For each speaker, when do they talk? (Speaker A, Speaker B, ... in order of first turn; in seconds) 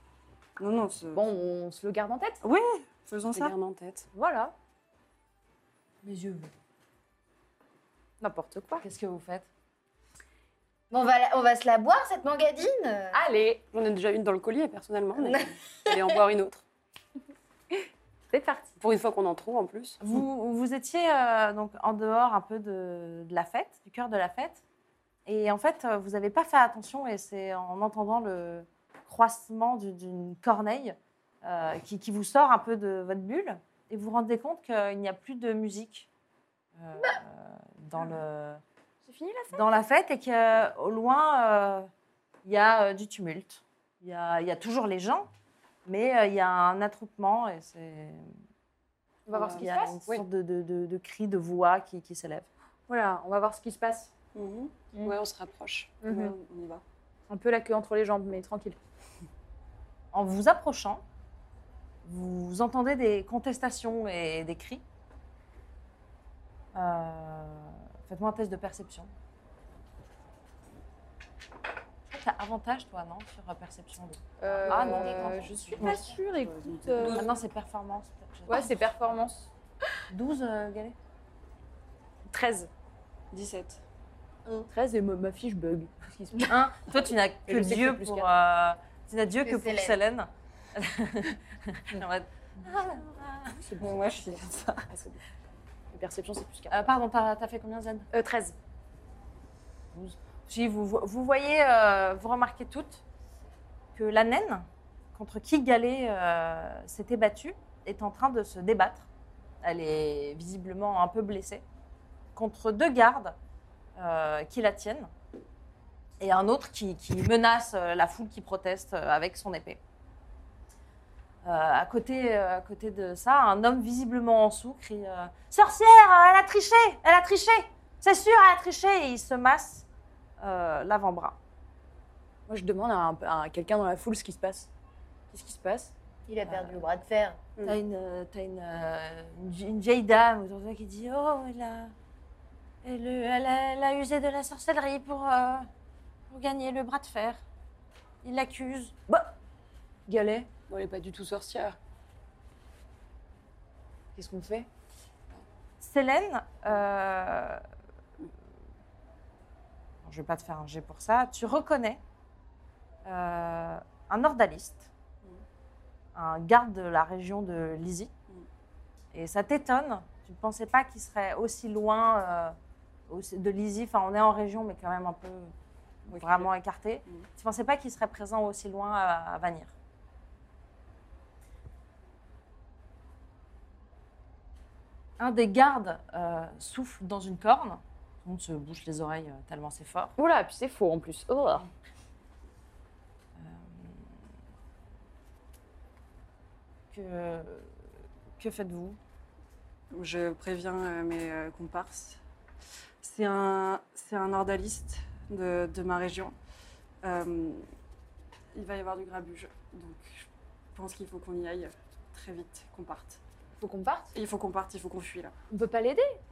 Speaker A: 0.6-1.2, 2.4-3.5, 54.3-54.7, 56.0-56.8, 75.8-77.3, 83.3-83.8, 93.8-94.9, 176.1-176.5, 199.9-202.2, 203.0-206.3, 207.0-207.7, 208.5-213.2, 214.1-215.3
Speaker B: 1.1-2.4, 4.1-4.5, 8.2-8.8, 13.1-13.6, 18.3-18.8, 39.0-39.8, 49.3-50.0, 52.9-54.1, 56.0-56.3, 57.3-58.8, 74.4-77.3, 78.5-79.5, 82.2-82.7, 84.7-86.5, 87.5-88.3, 93.5-95.2, 95.9-96.9, 98.1-98.5, 132.5-134.7, 135.3-135.9, 150.1-150.5, 154.2-154.7, 190.2-191.7, 213.6-214.1, 215.5-216.2
Speaker C: 3.3-4.1, 13.7-16.6, 18.8-20.0, 55.0-56.0, 74.6-75.0, 150.7-151.8
Speaker D: 6.0-6.5, 8.8-9.5, 20.0-24.6, 25.2-36.1, 36.8-38.6, 39.5-41.9, 42.4-45.3, 45.9-48.3, 49.3-52.5, 60.1-61.0, 62.0-64.8, 66.7-69.1, 72.1-76.1, 77.0-79.1, 80.1-81.0, 86.4-93.5, 96.7-98.1, 99.9-103.0, 103.9-109.1, 109.6-111.6, 112.3-113.3, 114.0-115.1, 116.2-119.8, 121.4-129.9, 130.4-131.4, 137.6-141.9, 142.8-145.7, 146.3-147.4, 148.2-149.3, 155.8-157.6, 160.0-162.0, 163.0-164.9, 166.1-168.1, 169.1-172.6, 173.1-175.5, 176.1-179.7, 185.2-190.1, 193.4-194.1, 196.9-197.7, 198.4-199.0
Speaker E: 10.9-13.2, 15.2-16.0, 74.7-75.9, 89.4-90.0, 136.3-137.4